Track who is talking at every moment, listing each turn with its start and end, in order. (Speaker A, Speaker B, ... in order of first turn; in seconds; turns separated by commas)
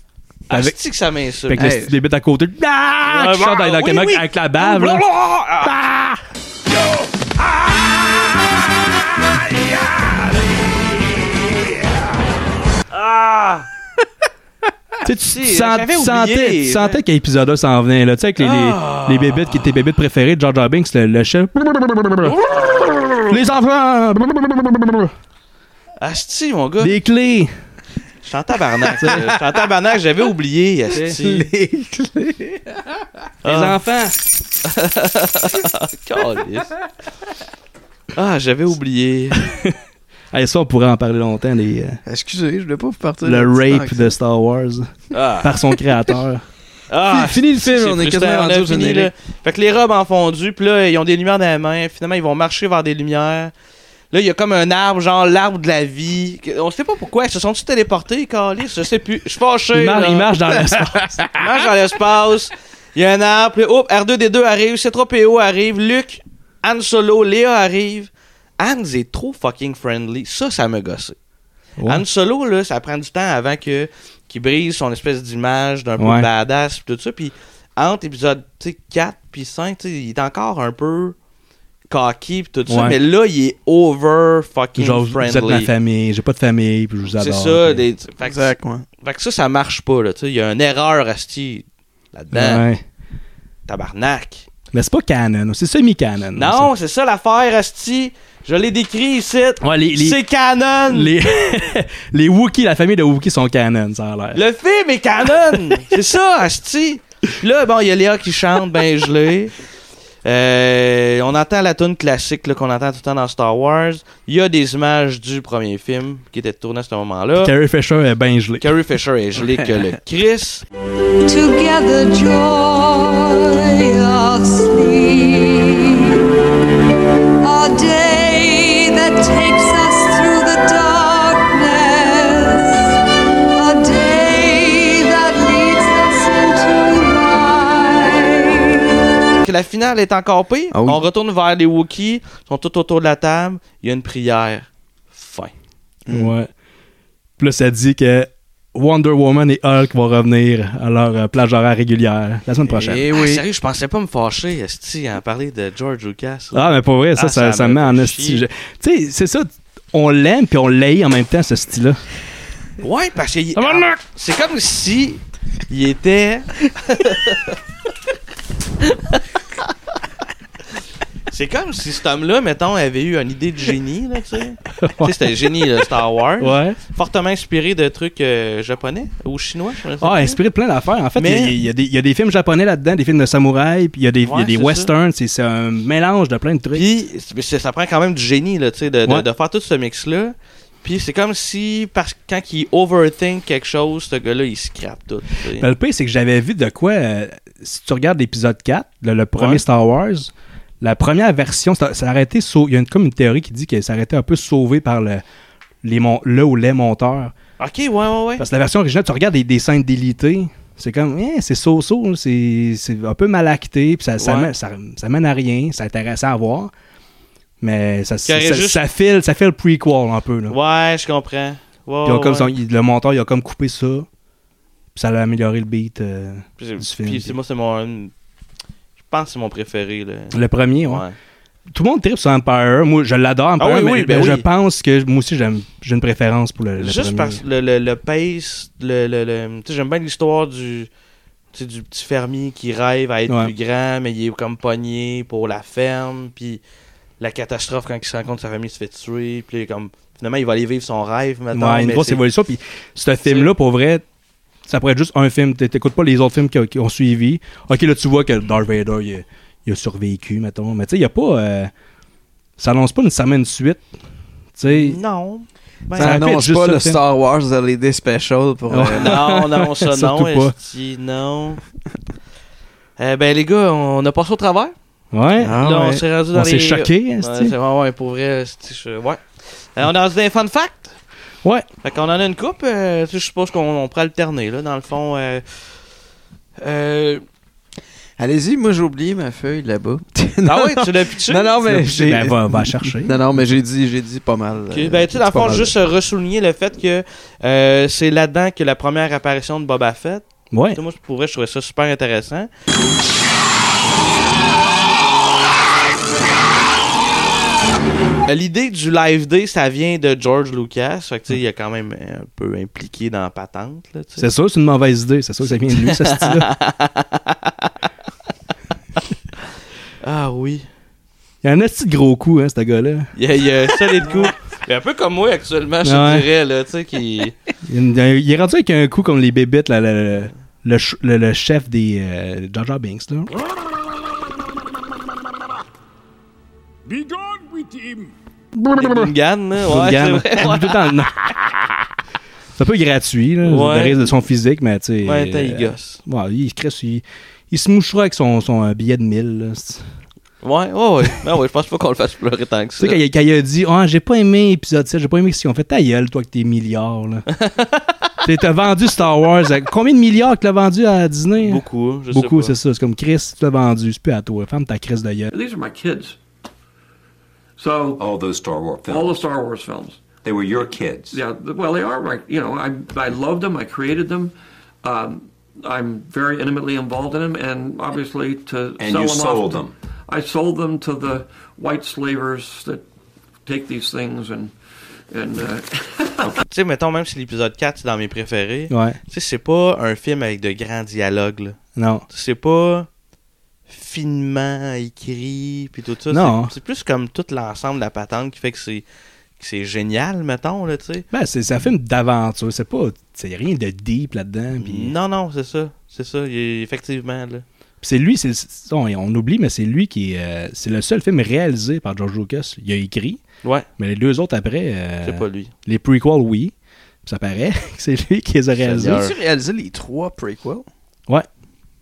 Speaker A: 0.5-1.7, Speaker B: 1.5-5.1, Speaker C: 1.6-1.9, Speaker A: 3.1-5.7, Speaker B: 5.6-6.2, Speaker A: 12.9-13.7, Speaker B: 15.0-22.3, Speaker A: 15.2-17.0, Speaker A: 18.4-19.7, Speaker A: 22.2-23.1, Speaker B: 23.3-25.1, Speaker A: 26.0-26.9, Speaker B: 26.8-27.5, Speaker A: 28.2-31.4, Speaker B: 29.0-29.3, Speaker C: 31.2-32.6, Speaker A: 33.4-33.8, Speaker B: 33.5-34.1, Speaker A: 34.6-36.7, Speaker A: 38.1-39.4, Speaker B: 40.3-42.0, Speaker C: 42.0-44.1, Speaker B: 43.2-44.9, Speaker A: 45.1-45.5, Speaker B: 45.4-46.4, Speaker A: 46.9-53.5, Speaker C: 47.1-49.1, Speaker A: 54.1-60.3, Speaker B: 59.7-61.4, Speaker A: 61.3-71.1, Speaker A: 71.8-81.2, Speaker B: 76.0-76.3, Speaker A: 81.9-85.7, Speaker B: 82.7-83.0, Speaker B: 84.8-87.8, Speaker A: 87.1-92.6, Speaker C: 88.2-88.8, Speaker B: 92.3-92.8, Speaker A: 93.7-94.5, Speaker B: 94.7-96.7, Speaker A: 96.3-101.1, Speaker B: 99.6-100.2, Speaker B: 100.9-104.4, Speaker A: 104.3-109.5, Speaker B: 105.5-105.8, Speaker A: 110.2-117.5, Speaker B: 117.4-118.7, Speaker A: 118.6-120.6, Speaker D: 121.3-126.2, Speaker D: 127.4-133.0, Speaker D: 133.5-138.9, Speaker A: 139.4-145.5, Speaker C: 140.7-141.0, Speaker C: 146.1-146.3, Speaker B: 146.1-146.5, Speaker B: 147.4-153.1, Speaker C: 152.7-153.4, Speaker A: 153.1-158.4, Speaker B: 156.5-162.0, Speaker A: 162.8-167.5, Speaker B: 163.6-164.0, Speaker A: 171.3-180.4, Speaker B: 174.8-175.4, Speaker B: 176.4-176.8, Speaker B: 180.0-186.8, Speaker A: 181.2-181.5, Speaker A: 184.2-184.9, Speaker A: 186.7-195.7, Speaker B: 195.6-205.2, Speaker A: 199.4-199.6, Speaker B: 205.8-207.3, Speaker A: 207.6-208.4, Speaker B: 208.4-216.7, Speaker A: 214.2-214.5, Speaker B: 217.6-220.6, Speaker A: 218.2-218.8, Speaker A: 220.5-222.5, Speaker B: 222.0-224.1, Speaker B: 224.9-227.3, Speaker A: 226.6-228.1, Speaker A: 229.1-231.1, Speaker B: 230.3-231.0, Speaker B: 231.7-237.4, Speaker A: 233.6-234.4, Speaker A: 236.8-240.9, Speaker A: 241.5-246.6, Speaker B: 243.3-243.5, Speaker A: 247.2-252.2, Speaker B: 251.5-254.0, Speaker A: 253.2-253.5, Speaker B: 254.7-261.7, Speaker B: 262.6-263.8, Speaker B: 264.6-265.0, Speaker A: 264.7-266.2, Speaker C: 265.9-269.2, Speaker B: 266.0-267.0, Speaker B: 268.7-270.5, Speaker A: 269.0-271.6, Speaker A: 273.0-274.7, Speaker B: 275.1-277.5, Speaker C: 275.4-276.0, Speaker A: 275.6-280.9, Speaker A: 281.8-285.4, Speaker A: 286.6-287.2, Speaker C: 288.2-295.7, Speaker A: 290.4-291.8, Speaker B: 291.6-293.2, Speaker A: 294.7-302.5, Speaker B: 300.5-300.8, Speaker A: 308.3-314.3, Speaker B: 314.2-316.5, Speaker A: 315.4-317.7, Speaker A: 320.0-320.7, Speaker B: 321.4-323.1, Speaker A: 323.1-327.3, Speaker B: 325.8-326.3, Speaker B: 327.6-333.3, Speaker B: 338.6-339.1, Speaker A: 338.8-340.8, Speaker B: 339.6-341.2, Speaker B: 342.6-349.8, Speaker A: 343.4-344.1, Speaker A: 345.0-346.0, Speaker A: 350.4-353.0, Speaker B: 352.8-357.2, Speaker A: 357.4-357.9, Speaker B: 358.2-365.3, Speaker A: 361.4-362.5, Speaker E: 365.3-366.2, Speaker E: 367.6-368.0, Speaker F: 367.9-369.2, Speaker E: 368.9-370.0, Speaker F: 370.2-371.2, Speaker E: 371.1-382.8, Speaker F: 378.8-379.7, Speaker E: 383.4-384.5, Speaker E: 385.1-386.3, Speaker A: 386.5-391.6, Speaker B: 388.7-389.0, Speaker B: 391.8-392.0, Speaker A: 392.1-392.9, Speaker A: 393.7-398.8, Speaker B: 396.1-396.5, Speaker A: 399.4-401.1, Speaker B: 401.1-404.9, Speaker A: 404.6-407.4, Speaker B: 407.8-413.2, Speaker B: 413.8-416.5, Speaker A: 415.0-415.5, Speaker B: 417.0-419.0, Speaker A: 418.6-419.1, Speaker C: 418.8-420.7